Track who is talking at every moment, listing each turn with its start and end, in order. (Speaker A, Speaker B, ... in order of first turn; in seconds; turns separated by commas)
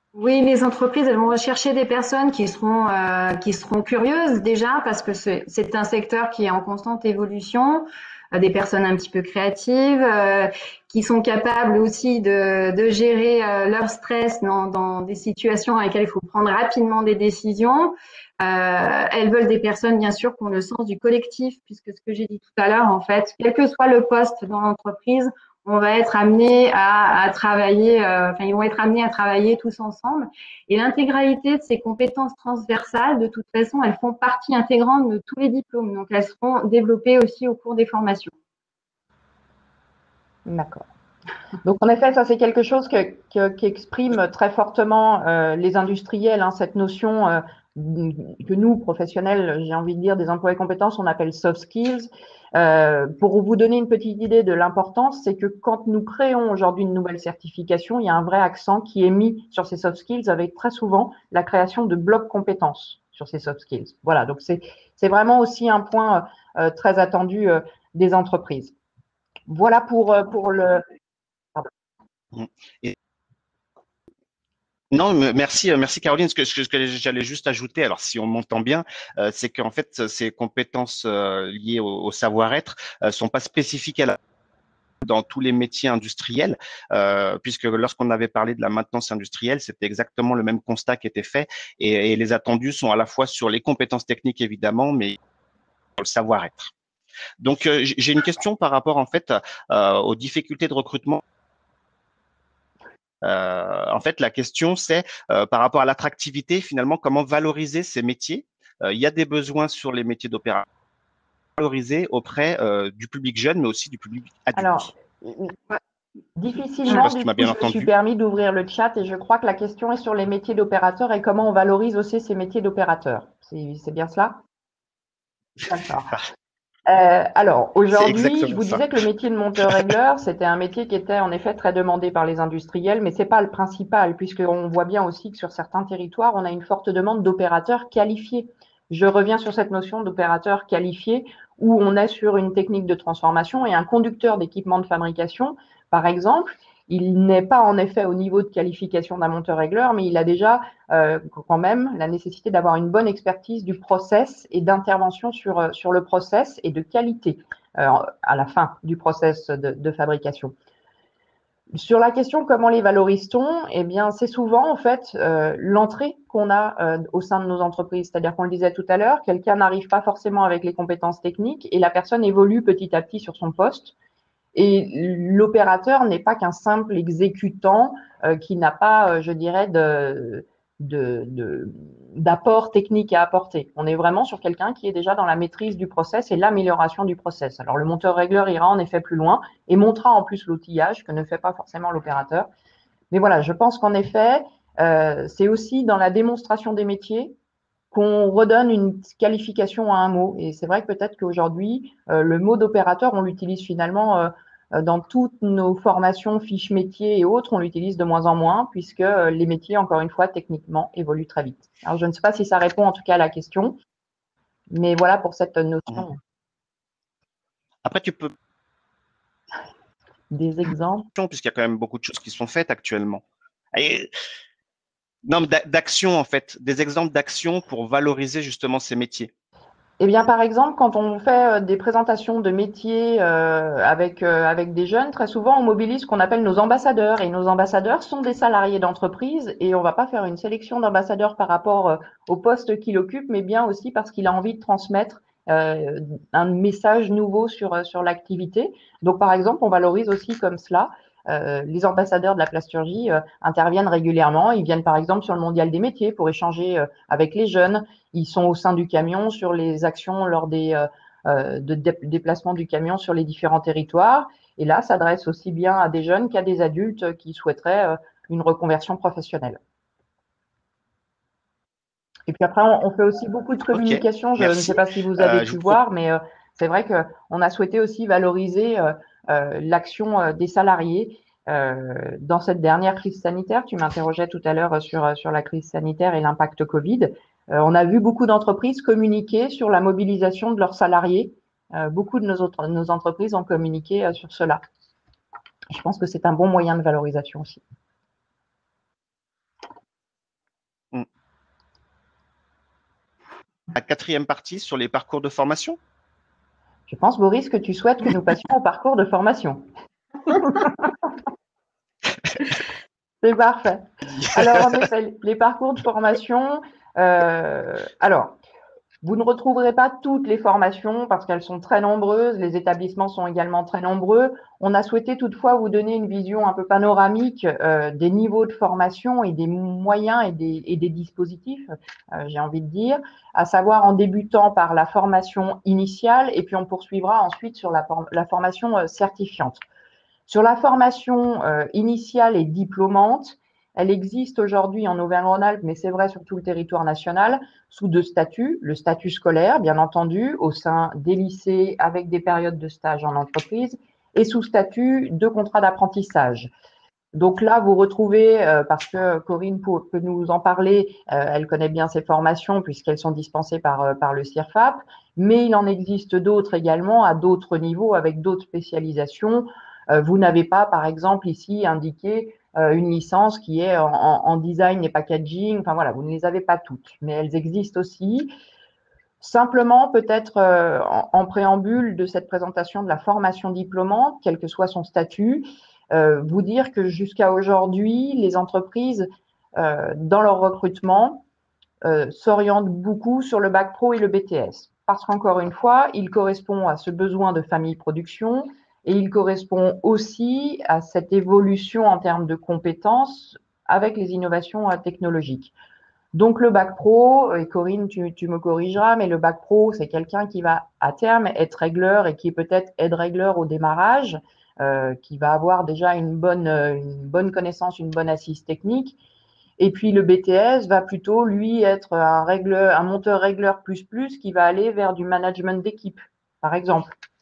Speaker A: 0.1-38.3, Speaker B: 40.5-40.8, Speaker B: 41.6-68.7, Speaker B: 69.5-70.8, Speaker C: 72.3-73.0, Speaker C: 74.9-84.2, Speaker C: 85.0-95.2, Speaker C: 96.0-96.7, Speaker C: 97.4-101.2, Speaker C: 103.2-110.7, Speaker C: 111.6-114.9, Speaker B: 114.5-115.6, Speaker B: 116.3-124.4, Speaker C: 116.9-117.9, Speaker B: 125.7-126.2, Speaker B: 126.9-160.5, Speaker C: 127.9-128.8, Speaker B: 161.7-173.9, Speaker B: 174.5-192.5, Speaker B: 193.1-197.3, Speaker B: 197.9-213.8, Speaker B: 214.7-216.2, Speaker C: 217.8-218.3, Speaker B: 220.3-221.1, Speaker C: 221.1-223.2, Speaker C: 223.7-224.1, Speaker C: 225.2-229.3, Speaker B: 230.0-269.6, Speaker B: 272.3-294.6, Speaker C: 273.7-275.8, Speaker B: 295.7-297.6, Speaker C: 303.7-305.8, Speaker B: 306.9-309.6, Speaker B: 310.3-310.7, Speaker B: 313.2-318.4, Speaker B: 319.0-339.6, Speaker B: 340.3-356.5, Speaker B: 357.1-378.3, Speaker B: 379.2-391.2, Speaker B: 391.8-405.5, Speaker B: 406.1-419.0, Speaker B: 419.6-426.9